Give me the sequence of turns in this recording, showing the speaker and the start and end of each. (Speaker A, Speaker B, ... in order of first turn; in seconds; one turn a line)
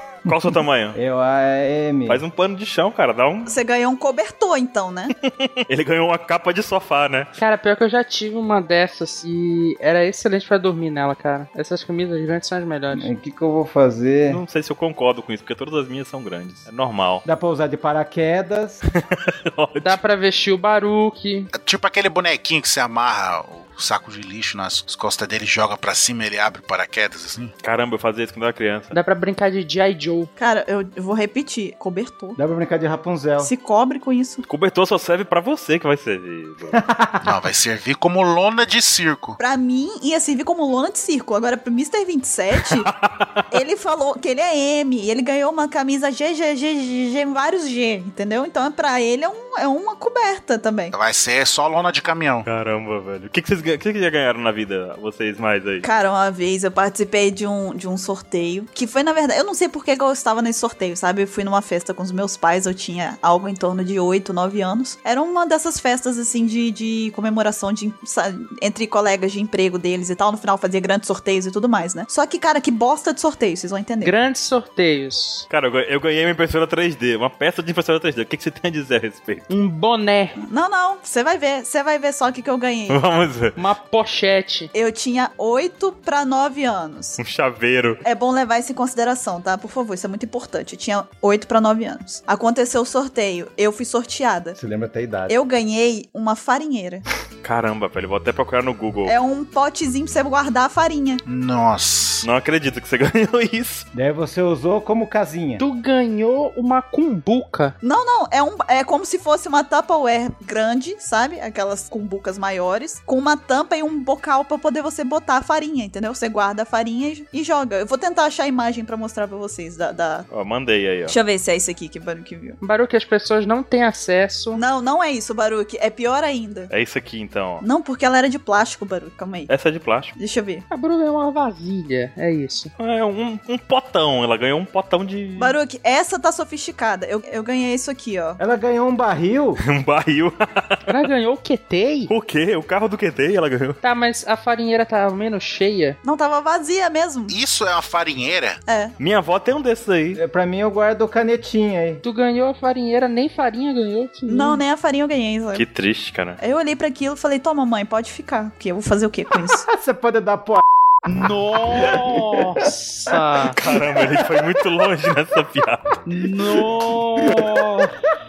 Speaker A: 0.2-1.0
Speaker B: 0.2-2.2
Speaker A: 2.1-3.5
Speaker C: 3.5-5.1
Speaker A: 5.7-7.3
Speaker D: 7.4-13.1
Speaker B: 12.9-14.4
Speaker A: 14.3-17.2
Speaker B: 17.2-18.8
Speaker A: 18.9-20.0
Speaker D: 19.8-21.5
Speaker E: 21.5-27.5
Speaker A: 27.6-29.0
Speaker D: 28.9-30.3
Speaker C: 30.4-32.4
Speaker B: 32.4-33.5
Speaker C: 33.4-34.5
Speaker A: 34.5-36.8
Speaker B: 36.7-37.2
Speaker E: 37.2-39.4
Speaker C: 39.4-42.9
Speaker A: 42.7-43.4
Speaker C: 43.5-50.9
Speaker E: 50.9-52.5
Speaker A: 52.4-55.9
Speaker C: 55.8-74.1
Speaker D: 74.0-75.5
Speaker A: 75.5-79.5
Speaker D: 79.5-80.4
Speaker C: 80.5-83.0
Speaker A: 82.9-83.6
Speaker D: 83.5-84.7
Speaker C: 84.7-87.2
Speaker A: 87.2-88.0
Speaker C: 88.0-94.6
Speaker B: 94.5-95.3
Speaker C: 95.3-97.0
Speaker A: 97.4-99.1
Speaker C: 99.0-101.2
Speaker E: 101.2-102.2
Speaker A: 102.2-103.8
Speaker B: 103.9-105.6
Speaker D: 105.6-107.7
Speaker C: 107.8-120.3
Speaker A: 120.3-121.2
Speaker C: 121.1-122.6
Speaker D: 122.6-124.6
Speaker C: 124.5-126.7
Speaker A: 126.7-127.6
Speaker C: 127.6-129.5
Speaker A: 129.5-130.1
Speaker C: 130.1-130.6
Speaker D: 130.7-132.7
Speaker A: 132.8-135.6
Speaker C: 135.4-138.4
Speaker B: 138.4-139.6
Speaker A: 139.6-140.8
Speaker D: 140.9-142.1
Speaker A: 142.1-143.8
Speaker D: 143.8-146.0
Speaker C: 146.0-147.3
Speaker E: 147.3-148.6
Speaker C: 148.7-148.9
Speaker A: 149.0-150.2
Speaker B: 150.1-152.0
Speaker D: 152.0-154.6
Speaker C: 154.3-155.6
Speaker A: 155.5-156.4
Speaker C: 156.4-159.7
Speaker B: 159.5-160.6
Speaker D: 161.1-163.6
Speaker B: 161.1-164.5
Speaker A: 163.5-166.0
Speaker D: 166.1-167.9
Speaker B: 166.5-167.9